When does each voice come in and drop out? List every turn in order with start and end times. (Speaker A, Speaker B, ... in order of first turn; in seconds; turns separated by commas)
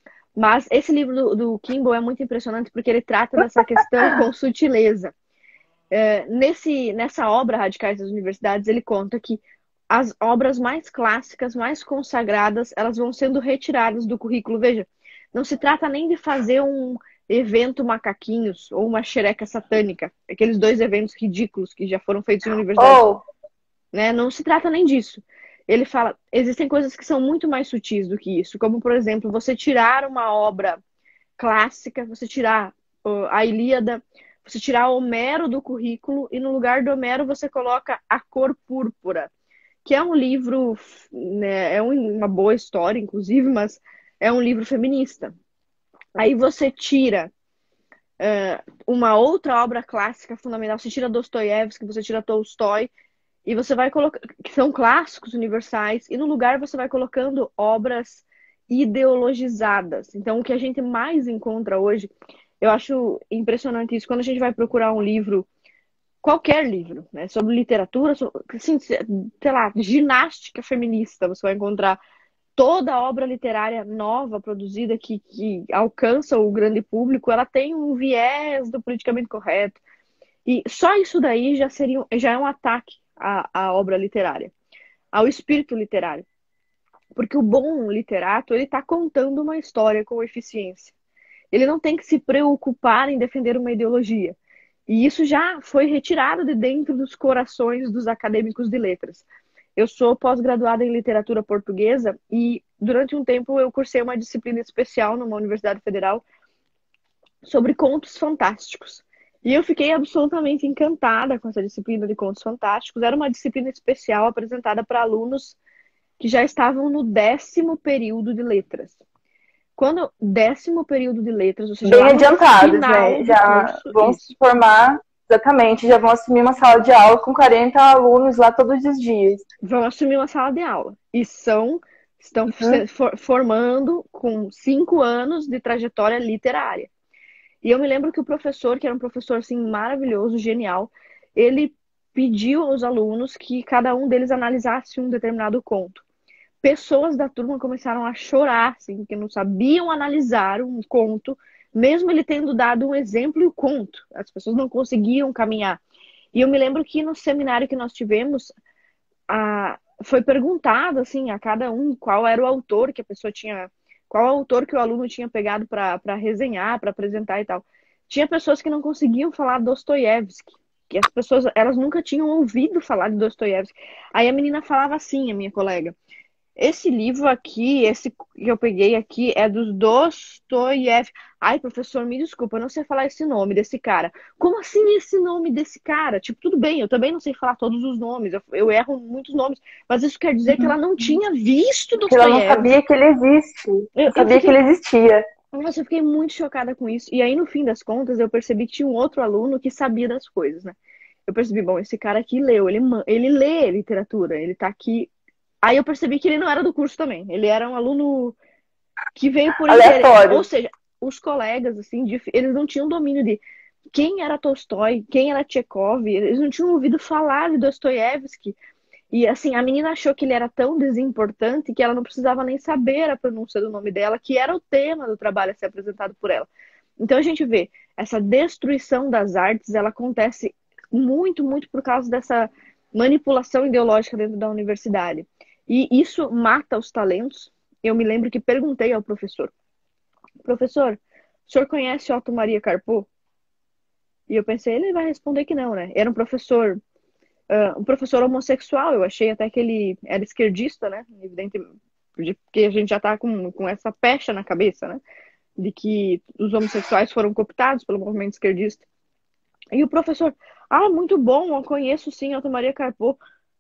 Speaker A: 0.3-5.1, Speaker A: 5.9-23.0, Speaker B: 22.8-23.2, Speaker A: 23.9-30.8, Speaker A: 31.4-39.3, Speaker A: 39.8-45.3, Speaker A: 46.2-47.3, Speaker A: 48.2-52.9, Speaker A: 53.4-65.5, Speaker A: 66.2-72.0, Speaker A: 72.5-79.8, Speaker A: 80.5-84.5, Speaker A: 85.1-86.2, Speaker A: 87.1-90.9, Speaker A: 91.5-94.4, Speaker A: 94.9-99.2, Speaker A: 99.8-106.2, Speaker A: 107.4-115.5, Speaker A: 116.2-119.0, Speaker A: 119.8-124.3, Speaker B: 121.8-129.4, Speaker A: 129.6-136.9, Speaker B: 132.5-132.8, Speaker A: 137.6-146.0, Speaker A: 146.6-155.8, Speaker A: 156.3-158.5, Speaker A: 159.3-175.9, Speaker A: 176.6-192.7, Speaker B: 192.1-195.2, Speaker A: 193.9-194.6, Speaker A: 195.5-200.8, Speaker A: 201.3-205.1, Speaker A: 205.6-208.3, Speaker A: 209.2-213.4, Speaker B: 209.7-210.4, Speaker A: 213.9-218.6, Speaker A: 219.1-226.5, Speaker A: 227.0-239.5, Speaker A: 240.4-243.1, Speaker A: 244.3-246.8, Speaker A: 247.5-255.0, Speaker A: 255.6-258.8, Speaker A: 259.7-263.2